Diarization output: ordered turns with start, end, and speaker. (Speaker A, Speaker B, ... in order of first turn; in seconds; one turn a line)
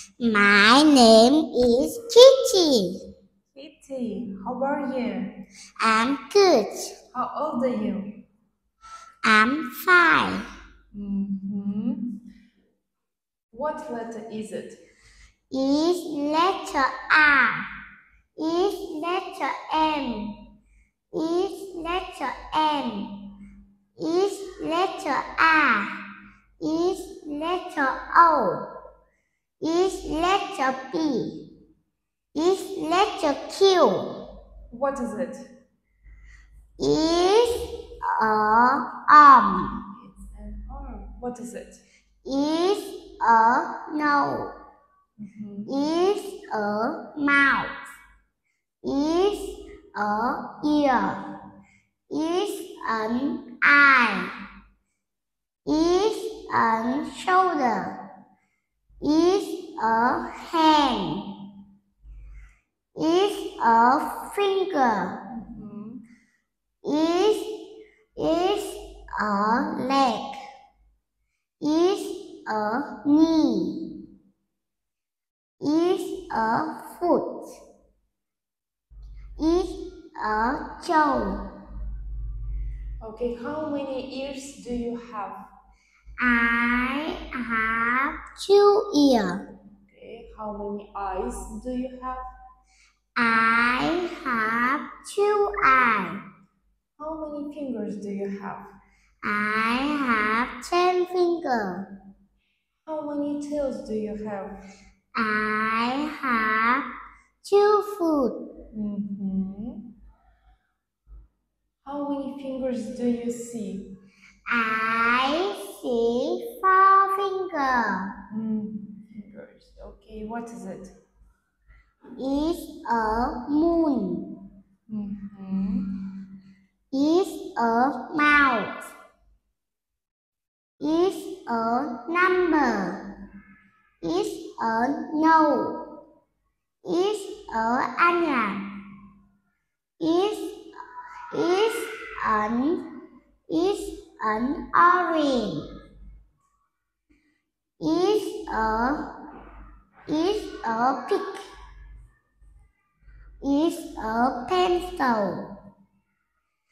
Speaker A: 0.2-3.0
Speaker B: 3.5-5.3
Speaker A: 5.8-6.9
Speaker B: 7.1-8.2
Speaker A: 9.2-10.5
Speaker B: 10.9-12.1
Speaker B: 13.5-14.8
Speaker A: 15.5-17.7
Speaker A: 18.4-20.4
Speaker A: 21.1-23.2
Speaker A: 24.0-25.9
Speaker A: 26.6-28.7
Speaker A: 29.6-31.5
Speaker A: 32.3-34.2
Speaker B: 34.7-35.5
Speaker A: 36.8-39.8
Speaker B: 39.9-41.8
Speaker A: 42.2-44.5
Speaker B: 45.2-45.7
Speaker A: 45.7-47.7
Speaker A: 48.8-51.2
Speaker A: 52.1-54.3
Speaker A: 55.7-58.0
Speaker A: 59.0-61.3
Speaker A: 63.0-65.2
Speaker B: 65.3-66.0
Speaker A: 66.8-67.5
Speaker A: 68.2-70.3
Speaker A: 71.6-73.9
Speaker A: 75.6-77.5
Speaker A: 79.4-81.5
Speaker B: 83.0-85.5
Speaker A: 86.2-89.4
Speaker B: 89.9-92.2
Speaker A: 93.2-96.2
Speaker B: 97.0-98.7
Speaker A: 99.2-101.9
Speaker B: 102.8-104.6
Speaker A: 105.2-106.9
Speaker A: 107.4-108.4
Speaker B: 108.7-109.8
Speaker B: 111.8-114.0
Speaker A: 114.5-118.1
Speaker B: 118.3-120.9
Speaker A: 122.2-124.4
Speaker B: 124.9-126.0
Speaker A: 126.9-128.8
Speaker A: 130.8-133.0
Speaker A: 134.0-135.8
Speaker A: 136.8-138.7
Speaker A: 140.0-140.6
Speaker A: 141.3-142.8
Speaker A: 143.5-145.7
Speaker A: 147.8-149.1
Speaker A: 150.1-151.5
Speaker A: 153.4-155.5